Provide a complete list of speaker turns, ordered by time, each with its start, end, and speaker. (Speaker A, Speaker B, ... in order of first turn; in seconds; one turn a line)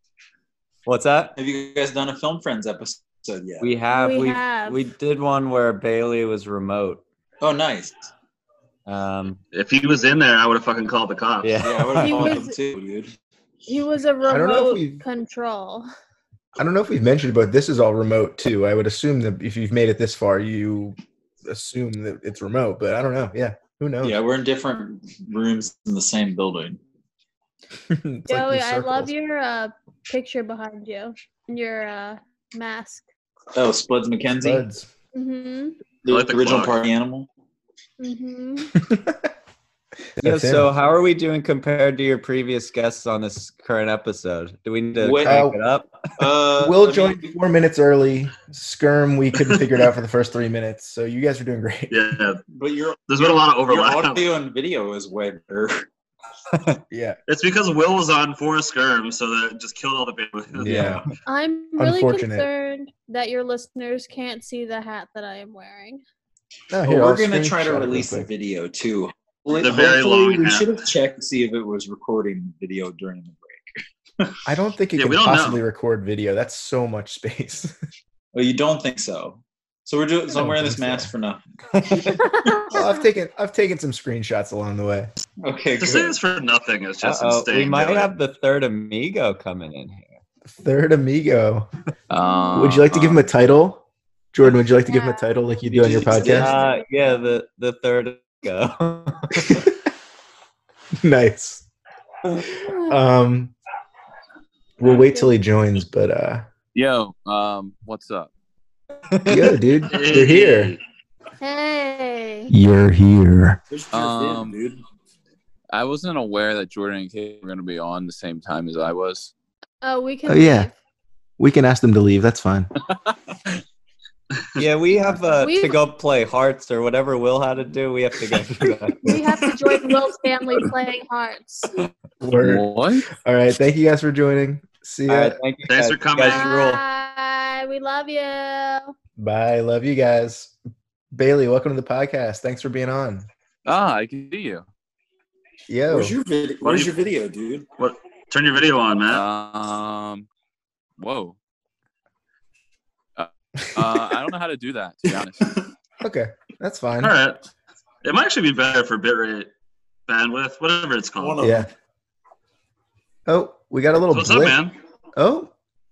Speaker A: 0.9-1.4
Speaker B: 1.4-3.7
Speaker A: 3.6-7.0
Speaker C: 3.9-4.8
Speaker B: 7.4-8.1
Speaker A: 8.9-9.4
Speaker D: 9.5-11.6
Speaker A: 11.4-12.4
Speaker B: 11.6-13.1
Speaker C: 12.0-12.6
Speaker C: 13.7-15.9
Speaker E: 14.3-15.0
Speaker E: 16.6-24.2
Speaker B: 24.0-26.8
Speaker E: 27.9-29.1
Speaker C: 28.3-33.1
Speaker B: 33.5-34.7
Speaker E: 34.4-34.9
Speaker C: 35.1-35.8
Speaker B: 36.0-37.3
Speaker D: 36.1-36.8
Speaker C: 38.0-38.7
Speaker E: 38.8-39.3
Speaker E: 40.2-40.7
Speaker A: 40.2-46.0
Speaker B: 45.0-45.4
Speaker E: 45.2-45.6
Speaker B: 46.2-47.3
Speaker E: 46.6-52.0
Speaker D: 49.4-49.6
Speaker D: 51.9-52.4
Speaker B: 52.5-55.9
Speaker D: 53.1-54.3
Speaker E: 56.9-57.2
Speaker D: 57.3-61.0
Speaker E: 60.6-61.0
Speaker B: 60.6-61.1
Speaker C: 61.3-66.0
Speaker E: 61.8-62.5
Speaker E: 66.7-68.3
Speaker B: 66.8-74.3
Speaker D: 69.5-70.9
Speaker E: 74.5-77.8
Speaker D: 75.0-75.6
Speaker B: 78.3-81.4
Speaker E: 80.3-81.1
Speaker A: 81.8-82.5
Speaker C: 82.1-82.9
Speaker E: 82.7-85.1
Speaker B: 85.4-86.2
Speaker D: 85.8-88.1
Speaker A: 87.0-90.2
Speaker E: 90.5-91.7
Speaker F: 92.1-93.3
Speaker C: 92.2-92.6
Speaker E: 92.5-96.6
Speaker C: 94.8-95.3
Speaker A: 95.8-99.7
Speaker C: 95.9-96.9
Speaker E: 99.4-99.8
Speaker E: 101.0-101.7
Speaker C: 102.7-103.0
Speaker E: 102.8-103.5
Speaker E: 104.8-106.5
Speaker C: 105.0-105.3
Speaker F: 106.7-108.3
Speaker A: 109.1-109.6
Speaker E: 109.3-110.8
Speaker D: 109.9-110.8
Speaker C: 111.4-112.5
Speaker E: 112.5-113.6
Speaker B: 113.7-114.8
Speaker F: 113.9-114.6
Speaker F: 115.7-119.3
Speaker C: 119.8-120.7
Speaker E: 120.3-120.7
Speaker E: 121.4-122.7
Speaker F: 122.9-123.2
Speaker A: 124.6-129.3
Speaker C: 125.4-125.8
Speaker C: 129.0-131.7
Speaker E: 132.2-135.4
Speaker F: 132.4-133.1
Speaker A: 135.1-136.8
Speaker D: 135.7-136.5
Speaker C: 136.2-138.9
Speaker E: 139.2-140.6
Speaker E: 141.1-143.3
Speaker F: 143.7-144.7
Speaker E: 145.7-146.2
Speaker B: 145.9-147.7
Speaker D: 146.6-146.9
Speaker D: 147.8-149.2
Speaker F: 149.1-150.3
Speaker F: 151.0-151.4
Speaker F: 153.2-155.6
Speaker E: 156.0-157.2
Speaker D: 157.0-157.5
Speaker D: 158.0-159.5
Speaker D: 160.1-161.4
Speaker B: 161.2-161.7
Speaker E: 161.4-161.7
Speaker E: 163.3-164.6
Speaker D: 164.1-164.8
Speaker E: 165.2-165.5